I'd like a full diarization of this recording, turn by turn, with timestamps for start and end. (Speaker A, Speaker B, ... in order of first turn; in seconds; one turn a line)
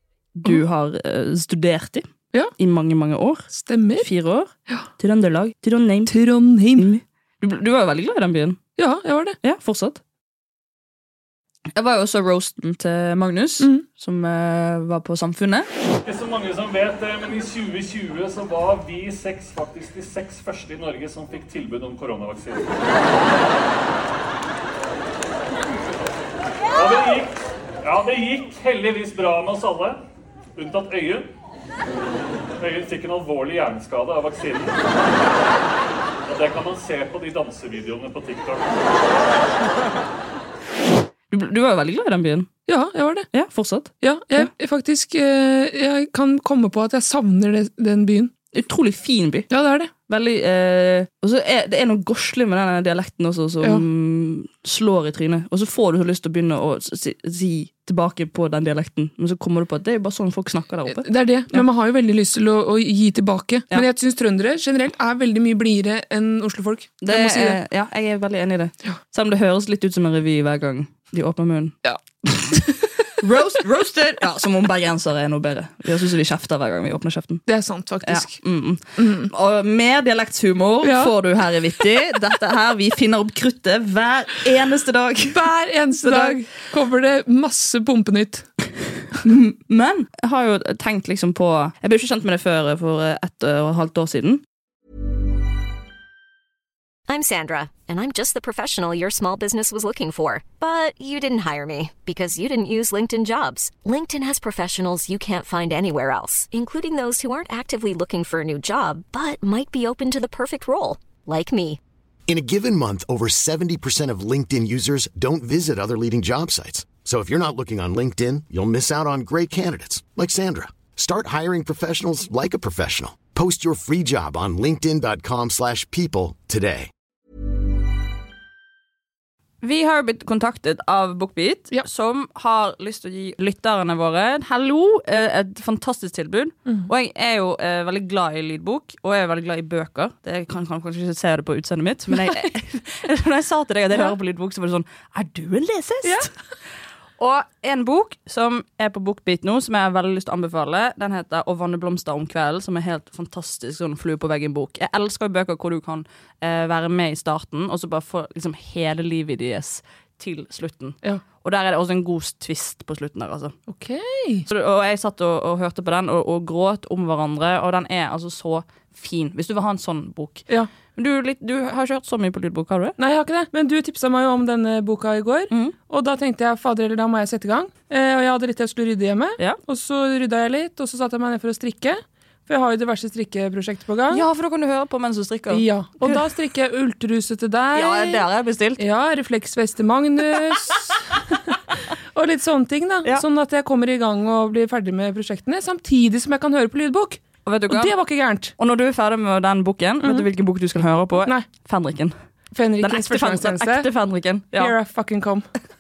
Speaker A: 0.3-6.1
Speaker B: 3.5-4.1
Speaker B: 6.1-6.9
Speaker A: 6.8-8.6
Speaker B: 8.8-9.4
Speaker A: 9.4-10.0
Speaker A: 11.8-15.7
Speaker C: 16.1-23.1
Speaker C: 26.7-30.0
Speaker C: 30.6-31.3
Speaker C: 32.6-34.9
Speaker C: 36.2-38.9
Speaker A: 41.3-42.5
Speaker B: 42.7-43.3
Speaker A: 43.3-44.5
Speaker B: 44.0-48.3
Speaker A: 48.5-49.5
Speaker B: 49.5-49.9
Speaker A: 50.1-61.7
Speaker B: 60.9-67.6
Speaker A: 67.0-71.8
Speaker B: 71.8-72.8
Speaker A: 73.2-77.5
Speaker B: 77.5-78.4
Speaker A: 78.0-85.4
Speaker B: 79.0-79.3
Speaker B: 80.8-81.1
Speaker B: 85.3-88.5
Speaker A: 86.0-86.4
Speaker A: 89.2-94.4
Speaker D: 97.1-111.8
Speaker E: 112.3-126.9
Speaker A: 129.6-146.3
Speaker B: 146.0-146.3
Speaker A: 147.2-163.6
Speaker B: 163.7-164.5
Speaker A: 164.5-173.0
Speaker B: 173.0-184.2
Speaker A: 184.1-186.2
Speaker B: 185.5-188.2
Speaker A: 187.7-188.8
Speaker B: 188.8-191.4
Speaker B: 192.2-198.5
Speaker A: 197.4-198.0
Speaker A: 198.6-202.1
Speaker B: 200.0-200.3
Speaker B: 202.5-203.9
Speaker A: 202.8-204.7
Speaker B: 204.6-205.5